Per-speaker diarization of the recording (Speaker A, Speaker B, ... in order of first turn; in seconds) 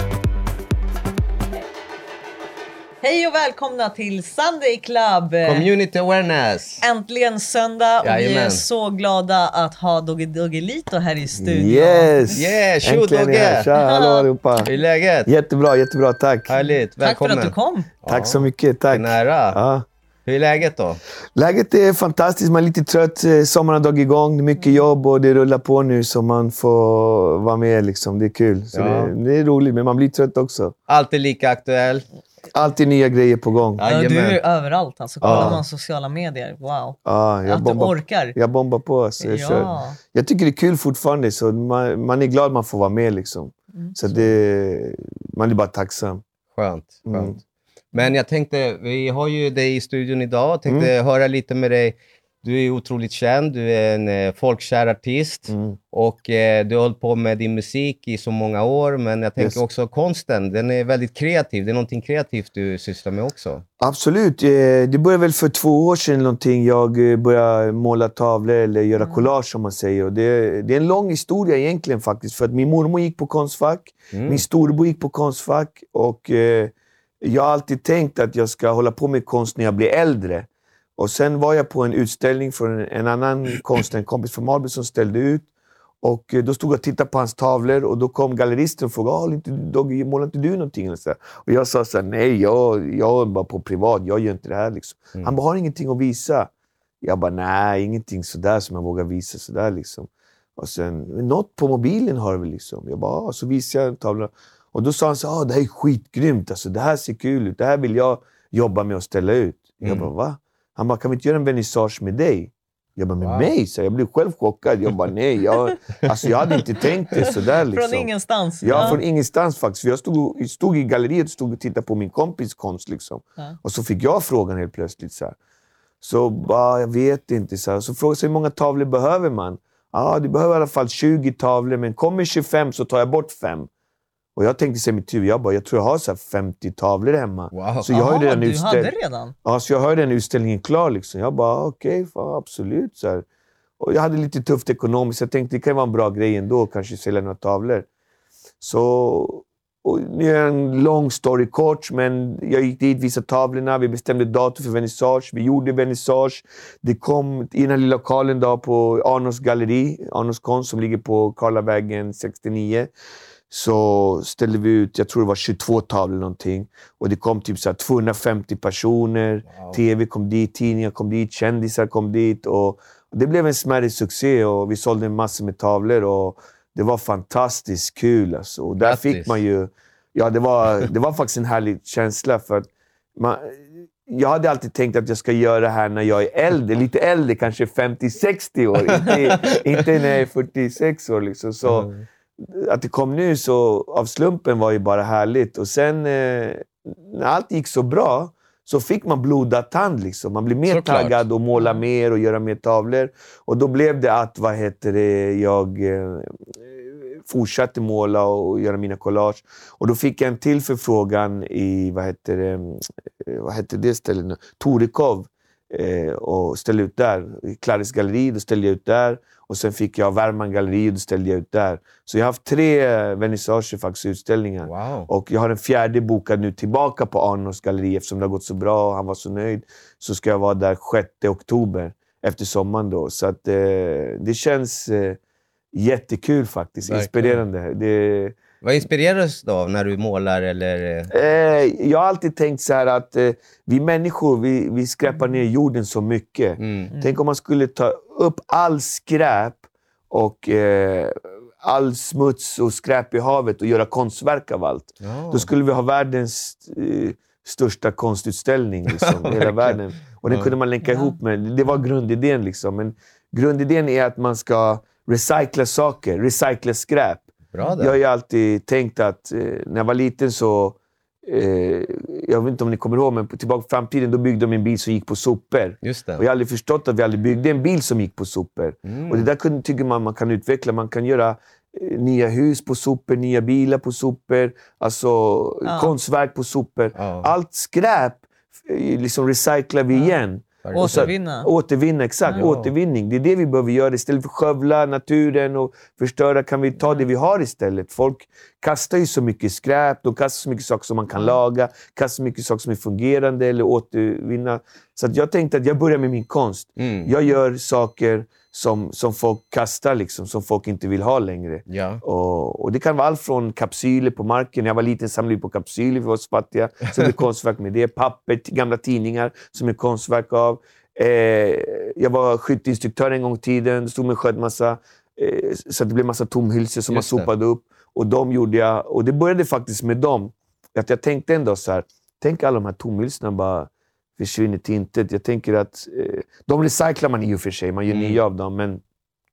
Speaker A: 3.0-5.7, 6.8-12.4, 13.7-14.3, 16.6-17.9, 33.9-38.4, 39.2-40.0, 69.0-69.3, 117.7-119.0, 137.9-139.3, 201.6-201.8, 246.9-247.2, 260.9-261.1, 285.7-285.9, 290.7-291.5
Speaker B: 5.4-6.8, 8.0-8.7, 12.3-13.7, 14.6-15.3, 16.5-19.6, 20.3-21.0, 28.7-29.1, 30.9-32.0, 33.8-34.4, 35.2-35.6, 44.1-44.4, 46.5-47.4, 47.9-63.6, 74.1-74.4, 109.8-110.1, 113.2-113.5, 118.7-119.0, 137.5-137.9, 169.5-169.8, 178.8-179.4, 188.9-189.9, 191.7-192.0, 200.7-201.2, 224.6-225.1, 236.9-237.4, 238.6-241.1, 246.6-246.9, 255.0-255.5, 259.0-260.5, 267.5-268.0, 275.8-276.2, 278.8-279.3, 286.9-287.3, 290.6-291.1, 292.3-292.7, 306.8-307.1, 311.7-312.0, 326.9-327.3, 337.9-338.2
Speaker C: 11.4-14.7, 15.3-16.5, 18.1-19.9, 21.4-30.8, 32.5-33.9, 35.2-35.6, 37.0-46.2, 47.1-47.4, 55.5-55.8, 63.8-85.5, 86.0-96.5, 97.0-125.4, 126.0-133.7, 134.3-138.9, 139.4-143.2, 143.8-147.9, 148.6-162.9, 163.5-235.2, 235.7-238.4, 241.1-338.8